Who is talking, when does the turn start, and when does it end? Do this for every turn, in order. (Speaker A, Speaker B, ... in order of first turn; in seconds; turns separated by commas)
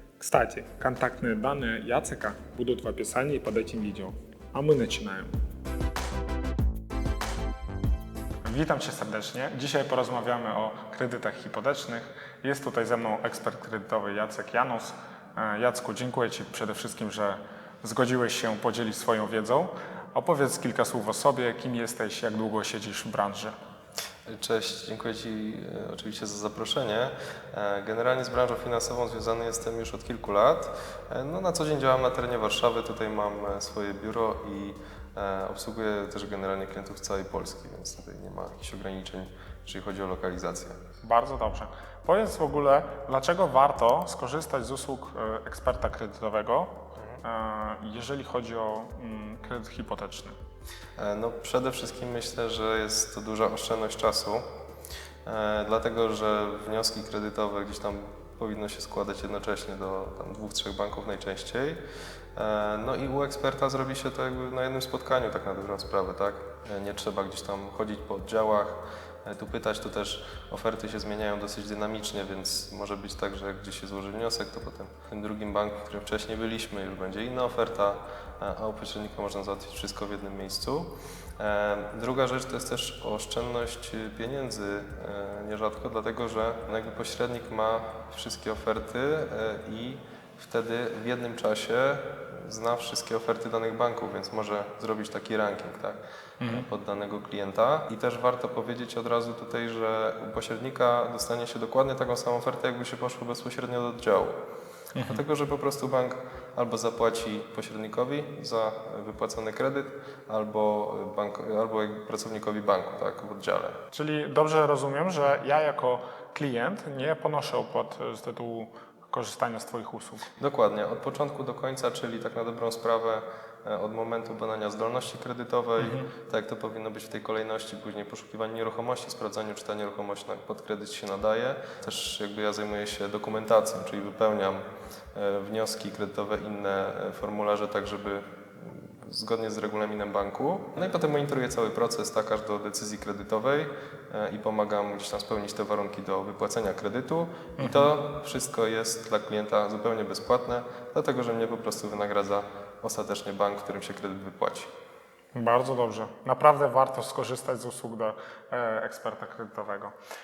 Speaker A: 0.2-5.3, Speaker A: 8.4-23.5, Speaker B: 24.3-40.8, Speaker A: 41.0-50.3, Speaker B: 47.0-47.2, Speaker B: 51.0-54.4, Speaker B: 55.2-61.8, Speaker B: 62.3-104.3, Speaker A: 96.4-96.7, Speaker A: 104.9-105.2, Speaker B: 105.0-113.8, Speaker A: 113.9-120.3, Speaker B: 120.4-134.6, Speaker A: 125.8-126.0, Speaker B: 135.1-154.7, Speaker A: 147.6-147.9, Speaker A: 155.3-159.9